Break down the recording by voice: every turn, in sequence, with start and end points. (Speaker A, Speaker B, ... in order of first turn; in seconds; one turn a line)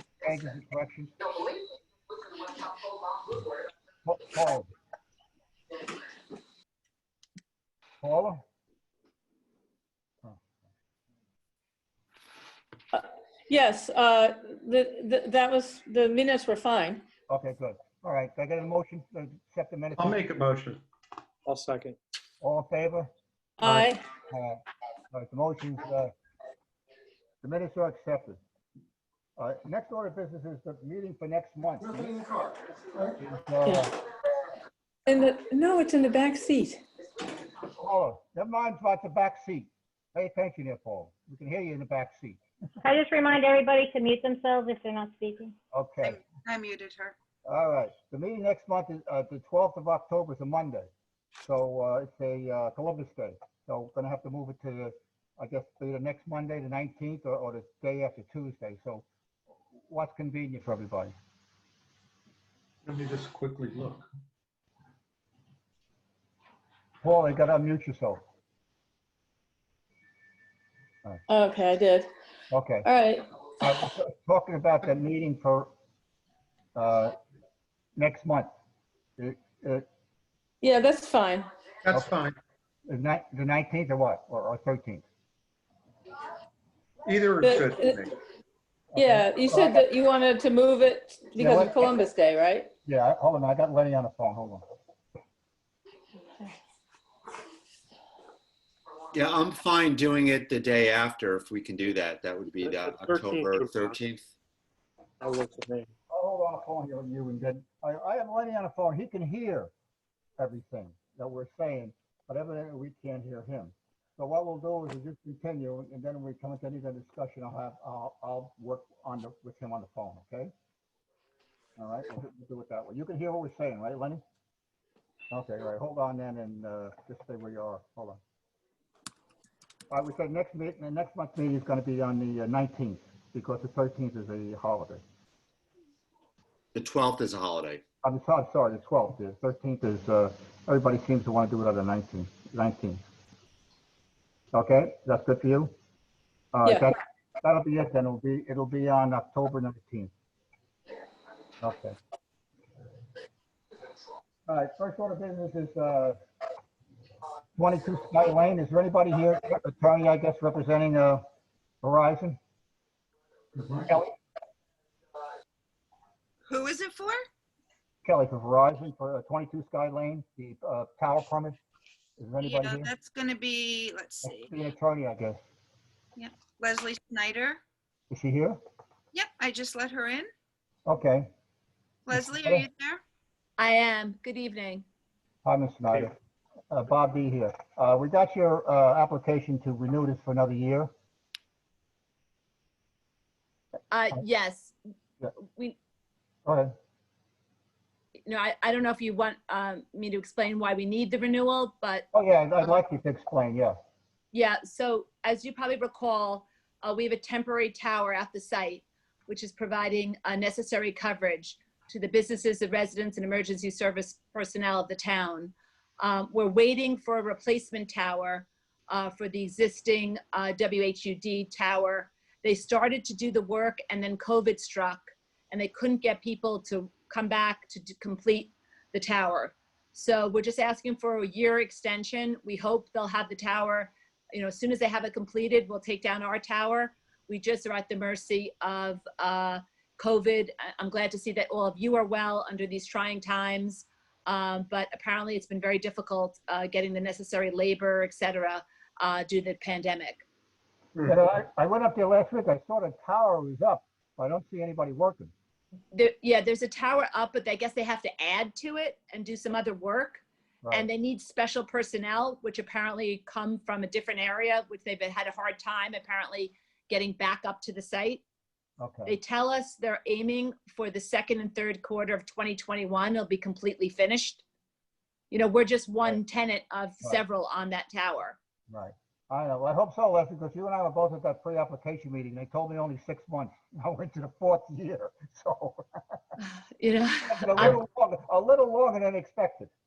Speaker A: 0.2-1.1
Speaker A: 4.0-4.7
Speaker A: 8.0-8.4
Speaker B: 13.5-17.0
Speaker A: 17.3-20.2
Speaker C: 19.9-20.8
Speaker D: 21.5-22.0
Speaker A: 22.4-23.1
Speaker A: 23.6-24.6
Speaker A: 25.1-26.1
Speaker A: 27.4-28.4
Speaker A: 29.4-32.1
Speaker A: 33.2-33.9
Speaker E: 35.1-36.7
Speaker B: 35.3-35.6
Speaker A: 37.7-42.4
Speaker F: 42.8-45.5
Speaker A: 45.7-46.2
Speaker G: 46.0-47.1
Speaker A: 47.5-50.9
Speaker A: 51.4-59.0
Speaker A: 59.9-61.1
Speaker C: 62.9-64.1
Speaker A: 67.0-68.2
Speaker B: 71.4-72.1
Speaker A: 72.5-72.9
Speaker A: 73.6-75.7
Speaker A: 76.8-77.1
Speaker A: 78.0-78.5
Speaker A: 79.2-79.9
Speaker B: 80.7-81.5
Speaker C: 81.8-82.4
Speaker A: 82.9-85.1
Speaker C: 87.0-88.1
Speaker A: 88.9-89.8
Speaker B: 89.4-92.7
Speaker E: 91.2-91.8
Speaker A: 91.4-92.0
Speaker A: 92.9-94.6
Speaker H: 99.1-104.3
Speaker D: 102.6-104.0
Speaker D: 105.2-105.9
Speaker A: 106.1-109.7
Speaker A: 110.4-120.5
Speaker A: 121.8-124.2
Speaker A: 125.3-128.2
Speaker A: 129.9-135.0
Speaker H: 136.8-137.8
Speaker A: 138.0-143.0
Speaker A: 144.5-145.7
Speaker A: 146.5-150.1
Speaker A: 151.6-152.0
Speaker A: 154.5-156.2
Speaker A: 157.6-161.2
Speaker A: 161.8-162.4
Speaker A: 163.8-164.1
Speaker G: 166.5-167.2
Speaker A: 168.0-171.6
Speaker A: 172.2-172.9
Speaker G: 172.4-174.5
Speaker A: 174.2-175.4
Speaker G: 176.2-177.6
Speaker A: 178.1-178.6
Speaker G: 179.1-180.3
Speaker A: 180.9-181.3
Speaker G: 182.1-183.0
Speaker A: 182.1-182.7
Speaker E: 183.6-184.8
Speaker A: 185.4-186.2
Speaker A: 186.7-190.9
Speaker E: 193.9-194.8
Speaker A: 196.5-196.7
Speaker E: 198.3-202.1
Speaker A: 202.1-203.8
Speaker E: 204.3-250.2
Speaker A: 251.0-255.3
Speaker E: 255.9-268.2
Speaker A: 268.8-269.1
Speaker E: 269.1-274.4
Speaker E: 275.3-278.4
Speaker A: 278.7-285.8
Speaker E: 286.8-287.7
Speaker A: 287.3-289.7